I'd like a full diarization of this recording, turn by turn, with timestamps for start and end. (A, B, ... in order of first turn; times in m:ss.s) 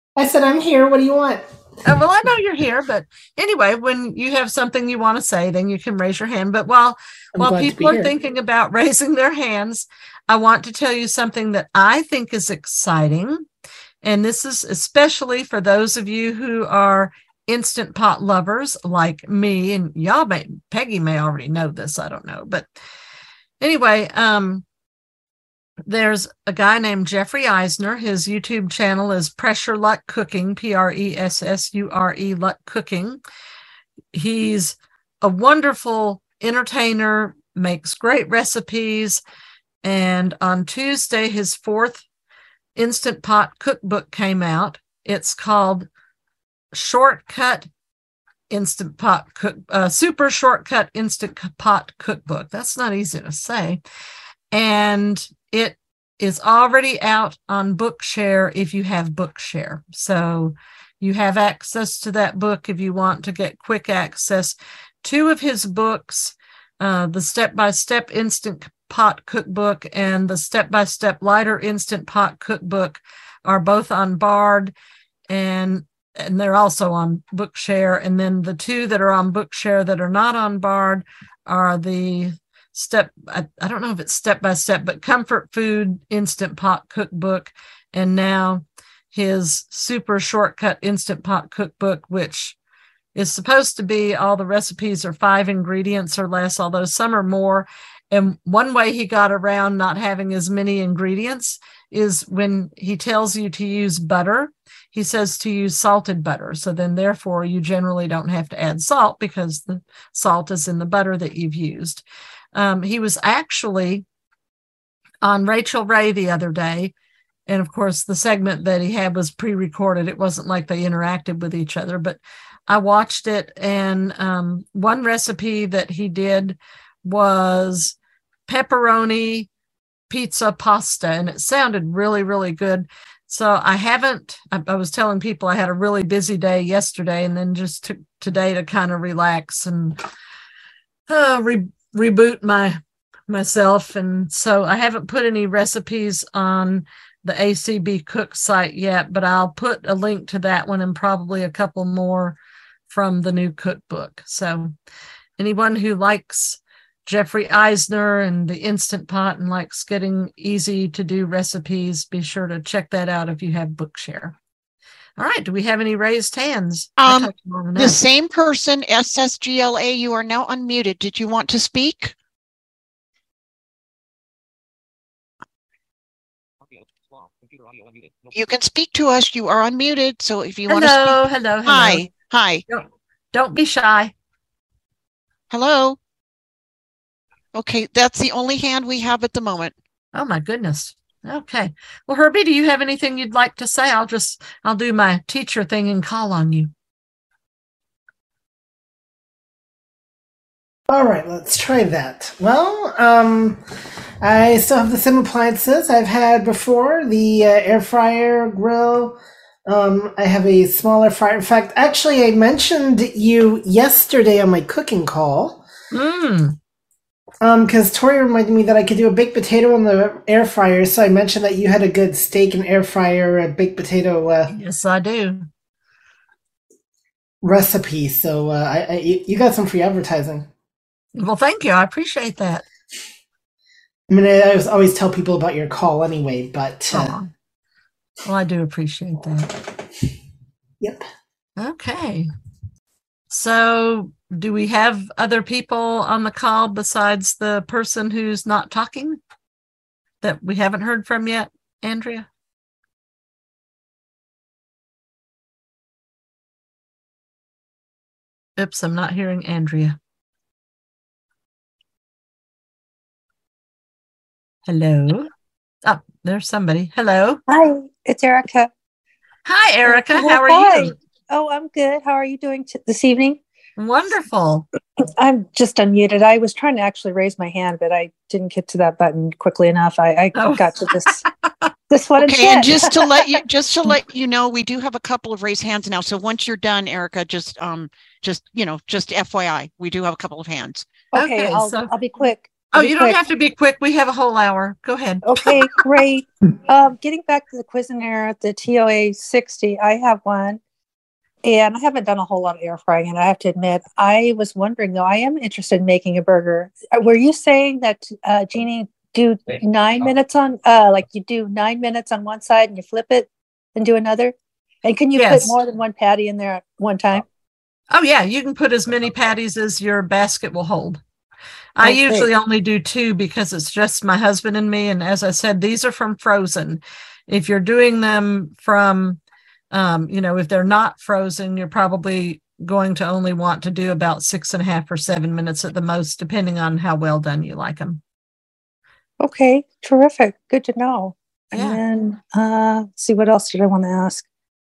0:00.2-0:01.4 A
0:01.8-0:13.4 B
0:07.4-0:08.1 A
0:14.0-0:22.7 B
0:23.6-0:24.6 B
0:25.9-0:33.2 B
0:34.1-0:39.2 B
0:39.8-0:42.0 B
0:42.8-0:45.9 B
0:46.7-0:47.7 B
0:48.5-0:53.8 B
0:54.5-1:14.7 B
1:15.3-1:32.6 B
1:33.1-1:54.0 B
1:55.2-1:56.9 B
1:57.5-2:08.0 B
2:08.5-2:09.5 B
2:10.1-2:20.0 B
2:21.1-2:22.8 B
2:23.3-2:34.7 B
2:35.4-2:44.4 B
2:45.2-2:48.0 B
2:47.0-2:52.1 C
2:58.3-3:02.6 C
3:00.7-3:02.0 B
3:02.7-3:04.1 B
3:05.5-3:06.0 C
3:07.5-3:09.7 C
3:10.1-3:16.7 B
3:20.9-3:23.6 A
3:24.2-3:35.6 A
3:35.9-3:36.6 B
3:37.4-3:44.5 A
3:44.5-3:45.5 B
3:47.4-3:50.5 A
3:51.1-3:52.6 B
3:54.1-3:57.2 A
3:56.9-3:57.3 B
3:58.2-3:59.5 B
4:00.8-4:01.1 A
4:01.6-4:02.3 B
4:03.3-4:09.2 B
4:10.2-4:12.3 B
4:18.6-4:20.0 B
4:24.7-4:25.3 B
4:25.8-4:27.4 B
4:27.5-4:28.7 D
4:29.4-4:30.9 B
4:29.8-4:33.4 D
4:33.8-4:34.6 B
4:35.0-4:41.2 D
4:40.3-4:41.7 B
4:41.9-4:43.3 D
4:42.2-4:50.9 C
4:51.1-4:53.2 D
4:51.1-4:51.9 B
4:52.7-4:55.5 B
4:55.2-5:00.6 D
5:01.4-5:17.2 D
5:15.2-5:15.5 B
5:17.9-5:21.0 B
5:21.8-5:29.2 B
5:21.8-5:22.3 D
5:29.7-5:38.0 B
5:39.2-5:44.2 D
5:41.5-5:41.8 B